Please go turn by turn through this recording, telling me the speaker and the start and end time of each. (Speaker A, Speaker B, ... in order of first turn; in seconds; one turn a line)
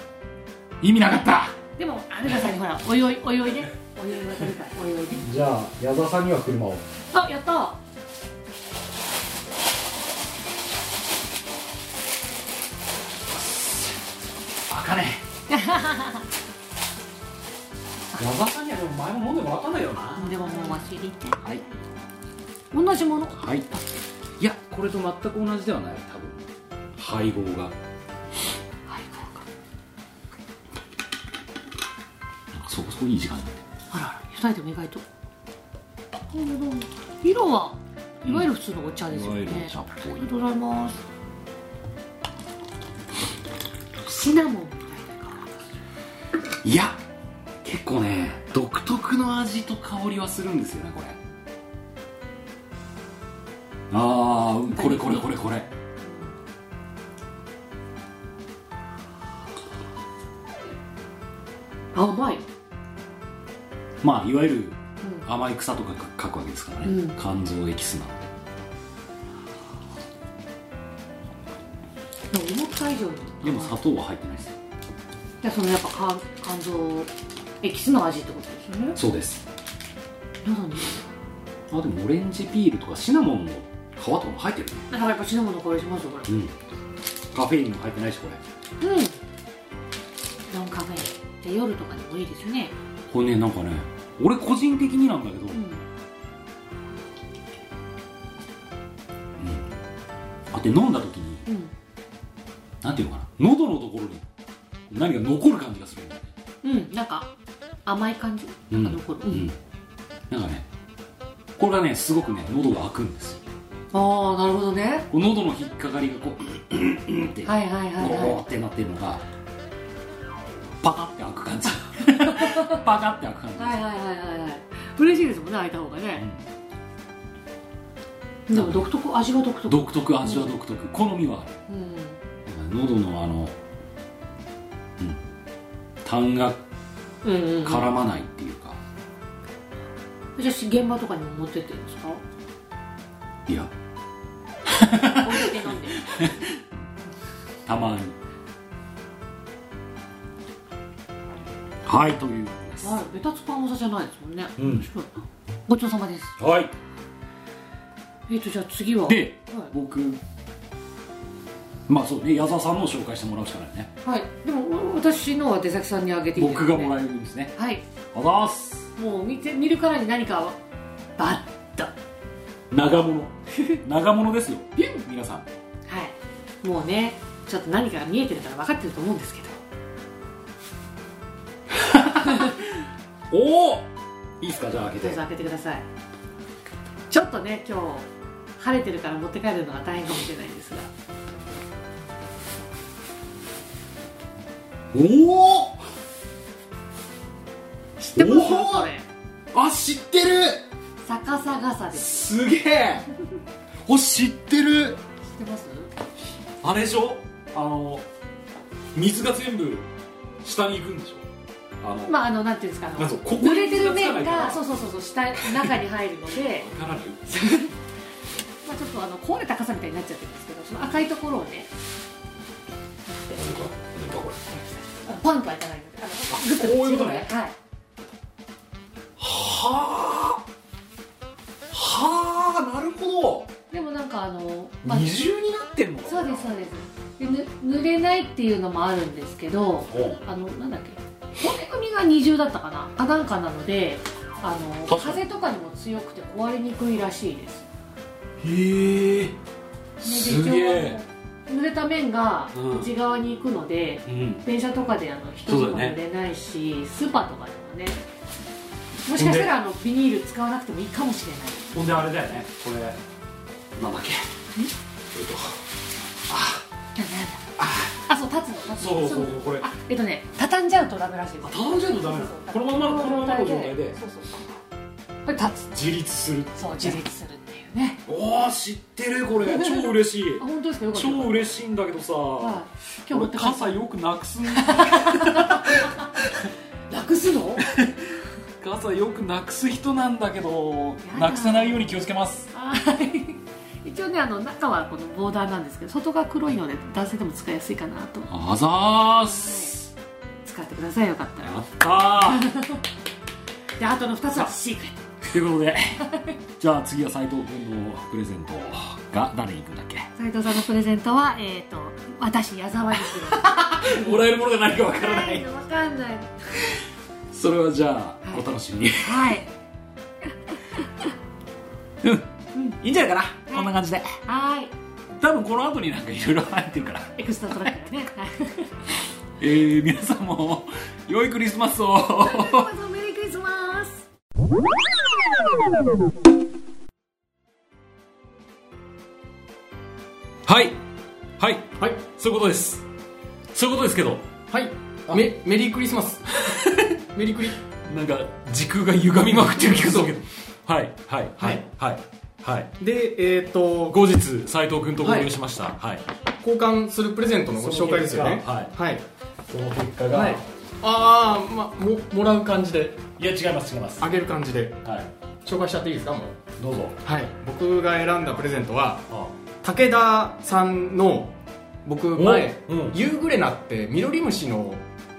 Speaker A: 0.8-1.6
Speaker B: 1.8-5.3
Speaker A: 5.2-6.8
Speaker B: 7.1-7.8
Speaker A: 13.3-14.0
Speaker A: 14.7-15.2
Speaker B: 15.5-16.2
Speaker A: 18.1-20.8
Speaker B: 20.2-21.9
Speaker B: 22.7-23.9
Speaker A: 23.3-23.7
Speaker A: 24.4-27.7
Speaker B: 28.9-29.4
Speaker A: 32.6-33.6
Speaker B: 33.9-35.0
Speaker B: 36.3-41.0
Speaker A: 38.2-38.5
Speaker A: 39.1-40.3
Speaker B: 44.0-45.6
Speaker A: 46.6-47.0
Speaker A: 47.6-51.2
Speaker A: 53.9-55.7
Speaker B: 54.7-55.3
Speaker B: 56.0-56.3
Speaker B: 61.9-62.4
Speaker A: 64.0-68.3
Speaker B: 65.0-65.3
Speaker B: 66.8-67.2
Speaker B: 72.3-73.7
Speaker A: 73.4-74.6
Speaker B: 75.4-79.0
Speaker A: 78.9-79.4
Speaker B: 80.4-81.1
Speaker A: 81.7-84.9
Speaker B: 84.9-86.3
Speaker A: 86.3-86.5
Speaker A: 87.3-88.4
Speaker B: 88.8-89.2
Speaker B: 90.5-92.7
Speaker A: 93.1-95.6
Speaker B: 95.5-95.8
Speaker A: 99.4-99.8
Speaker A: 100.5-101.4
Speaker B: 101.5-101.7
Speaker A: 102.8-104.3
Speaker A: 104.9-106.3
Speaker B: 106.6-107.3
Speaker B: 107.8-109.5
Speaker A: 108.7-109.5
Speaker A: 110.3-110.7
Speaker A: 111.6-113.4
Speaker B: 113.9-115.1
Speaker A: 115.1-119.2
Speaker B: 117.4-118.4
Speaker A: 120.8-123.8
Speaker B: 122.1-122.8
Speaker B: 123.6-126.3
Speaker A: 126.2-126.4
Speaker B: 128.5-130.5
Speaker A: 128.5-128.9
Speaker A: 129.7-131.6
Speaker B: 131.7-132.2
Speaker A: 132.4-133.6
Speaker A: 136.0-136.6
Speaker B: 137.2-137.9
Speaker A: 137.6-138.8
Speaker B: 140.4-142.2
Speaker A: 143.5-143.7
Speaker A: 144.7-146.7
Speaker B: 145.1-146.1
Speaker A: 147.7-148.2
Speaker A: 151.8-153.0
Speaker B: 152.8-156.4
Speaker A: 154.6-154.9
Speaker A: 156.4-156.7
Speaker B: 158.3-159.7
Speaker A: 159.1-160.2
Speaker A: 161.9-163.9
Speaker B: 164.0-167.0
Speaker A: 166.3-167.5
Speaker B: 167.5-167.8
Speaker A: 168.1-168.9
Speaker B: 168.9-170.6
Speaker B: 171.2-171.9
Speaker A: 172.7-175.5
Speaker B: 175.9-179.6
Speaker A: 181.7-182.7
Speaker A: 183.3-185.2
Speaker B: 185.0-185.8
Speaker B: 187.1-190.9
Speaker A: 194.9-195.8
Speaker B: 198.0-199.1
Speaker A: 198.1-198.9
Speaker A: 199.5-200.6
Speaker B: 201.0-202.3
Speaker A: 201.9-203.1
Speaker A: 203.8-205.0
Speaker B: 205.2-205.9
Speaker A: 206.6-208.1
Speaker A: 208.9-209.9
Speaker A: 210.4-211.2
Speaker A: 211.8-212.2
Speaker B: 212.1-216.7
Speaker A: 213.0-214.7
Speaker A: 215.4-215.8
Speaker A: 216.4-217.3
Speaker B: 217.3-217.7
Speaker B: 218.6-221.7
Speaker A: 223.3-224.6
Speaker B: 225.0-227.5
Speaker A: 226.3-227.3
Speaker A: 229.2-230.4
Speaker A: 231.7-233.5
Speaker B: 233.7-235.1
Speaker A: 234.8-236.6
Speaker B: 236.1-247.7
Speaker A: 239.9-240.2
Speaker A: 244.9-245.2
Speaker A: 248.4-249.4
Speaker A: 250.0-251.0
Speaker B: 250.0-258.0
Speaker A: 252.5-252.9
Speaker A: 254.1-254.4
Speaker A: 255.5-256.0
Speaker B: 259.0-261.7
Speaker A: 259.1-259.5
Speaker A: 261.7-263.0
Speaker A: 263.7-264.3
Speaker A: 265.1-265.6
Speaker A: 266.3-266.6
Speaker B: 266.9-274.4
Speaker A: 267.6-267.9
Speaker A: 268.8-269.7
Speaker A: 271.4-274.0
Speaker B: 275.2-275.7
Speaker A: 275.7-277.0
Speaker B: 276.6-278.0
Speaker A: 278.1-286.5
Speaker B: 279.4-281.6
Speaker B: 282.4-283.8
Speaker B: 284.5-286.1
Speaker B: 286.9-287.7
Speaker A: 287.6-292.5
Speaker B: 291.0-291.9
Speaker B: 292.5-298.3
Speaker A: 298.3-299.9
Speaker B: 299.3-299.7
Speaker B: 300.4-302.8
Speaker A: 301.4-302.5
Speaker B: 303.8-305.0
Speaker A: 305.2-306.0
Speaker B: 306.0-306.3
Speaker A: 306.6-310.1
Speaker B: 310.2-314.1
Speaker A: 313.1-315.5
Speaker B: 314.9-316.4
Speaker A: 317.3-319.4
Speaker B: 319.0-319.5
Speaker B: 320.8-321.0
Speaker A: 322.0-324.2
Speaker B: 324.2-324.7
Speaker A: 325.1-327.2
Speaker B: 327.1-328.7
Speaker A: 329.4-332.7
Speaker B: 332.2-334.1
Speaker A: 340.4-340.8
Speaker A: 341.4-342.8
Speaker A: 343.5-344.3
Speaker C: 344.5-347.6
Speaker A: 346.4-346.9
Speaker A: 347.8-352.7
Speaker C: 349.6-350.1
Speaker C: 351.4-351.6
Speaker C: 352.8-354.0
Speaker A: 353.9-356.0
Speaker C: 355.0-355.3
Speaker C: 356.4-359.0
Speaker A: 357.6-358.7
Speaker A: 359.5-360.4
Speaker C: 360.1-363.1
Speaker A: 363.2-364.2
Speaker C: 364.0-364.8
Speaker C: 365.4-366.4
Speaker A: 366.6-367.0
Speaker C: 367.0-374.8
Speaker A: 372.1-372.9